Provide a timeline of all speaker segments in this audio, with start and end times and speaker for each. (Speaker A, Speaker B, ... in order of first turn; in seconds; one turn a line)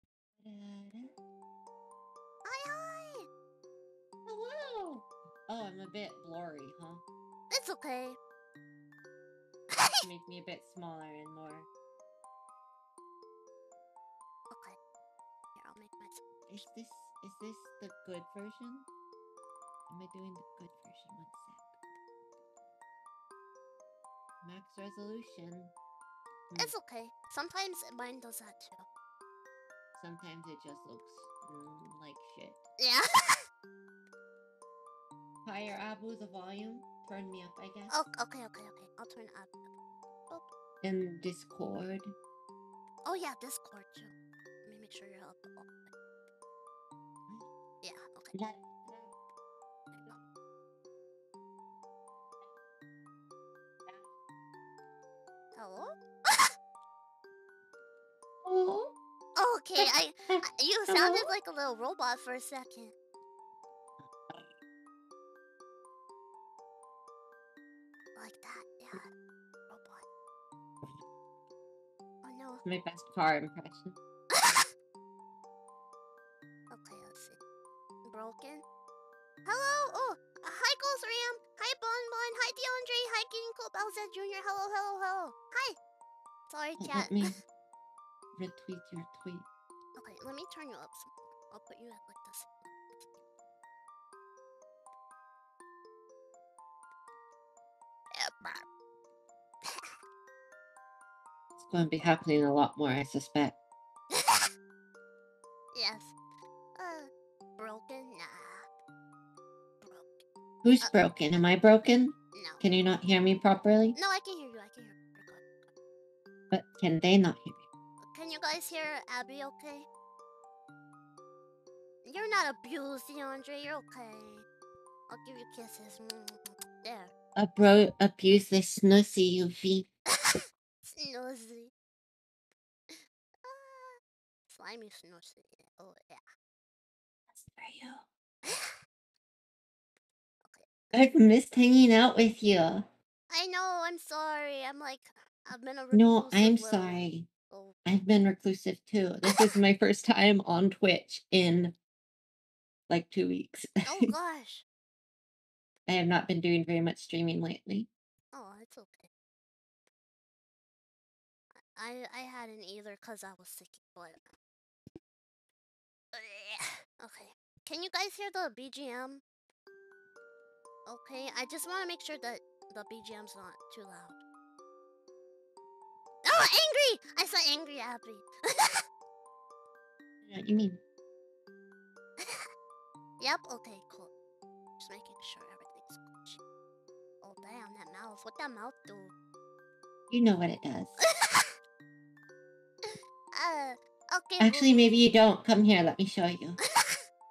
Speaker A: 0.4-1.1
Speaker B: 2.5-3.3
Speaker A: 4.3-7.0
Speaker B: 7.5-8.2
Speaker B: 9.7-10.1
Speaker A: 10.0-11.7
Speaker B: 14.5-14.8
Speaker B: 15.6-16.2
Speaker A: 16.5-18.9
Speaker A: 19.9-21.6
Speaker A: 24.4-25.7
Speaker B: 26.6-28.9
Speaker A: 30.0-32.6
Speaker B: 32.8-33.5
Speaker A: 35.5-38.0
Speaker B: 37.9-39.7
Speaker A: 40.8-42.1
Speaker B: 43.0-44.1
Speaker B: 44.6-45.9
Speaker B: 47.8-48.4
Speaker A: 48.3-49.1
Speaker B: 55.5-56.5
Speaker A: 58.4-58.9
Speaker B: 59.4-62.9
Speaker A: 59.8-61.3
Speaker B: 68.2-69.1
Speaker B: 69.7-70.0
Speaker B: 72.2-72.6
Speaker A: 72.7-74.0
Speaker B: 74.3-74.7
Speaker B: 76.7-77.4
Speaker B: 78.1-78.6
Speaker B: 79.5-85.8
Speaker B: 86.5-87.4
Speaker A: 86.8-87.4
Speaker A: 88.4-89.5
Speaker B: 90.0-92.9
Speaker B: 98.1-98.7
Speaker B: 99.7-99.9
Speaker A: 101.6-103.6
Speaker B: 104.1-104.5
Speaker B: 105.7-106.1
Speaker B: 106.8-108.7
Speaker B: 109.8-110.2
Speaker A: 110.6-114.0
Speaker B: 112.3-112.6
Speaker B: 114.0-115.7
Speaker A: 116.5-117.6
Speaker B: 118.1-119.9
Speaker B: 122.0-124.5
Speaker B: 125.1-127.1
Speaker A: 127.4-129.9
Speaker B: 130.1-131.7
Speaker B: 132.9-136.2
Speaker A: 137.3-138.1
Speaker B: 138.4-138.8
Speaker B: 140.4-140.7
Speaker A: 140.9-142.9
Speaker B: 143.3-147.8
Speaker A: 145.9-147.3
Speaker A: 147.9-151.8
Speaker B: 149.3-149.6
Speaker A: 152.9-154.1
Speaker B: 153.8-154.6
Speaker A: 155.9-157.9
Speaker B: 158.3-159.1
Speaker B: 161.8-164.2
Speaker B: 166.1-169.2
Speaker B: 170.9-174.2
Speaker B: 176.2-178.9
Speaker A: 180.2-180.8
Speaker B: 182.2-182.5
Speaker B: 183.2-184.1
Speaker B: 184.8-186.4
Speaker B: 187.2-189.1
Speaker A: 190.1-191.0
Speaker B: 191.0-191.6
Speaker B: 192.8-194.9
Speaker A: 194.4-196.6
Speaker B: 196.8-197.1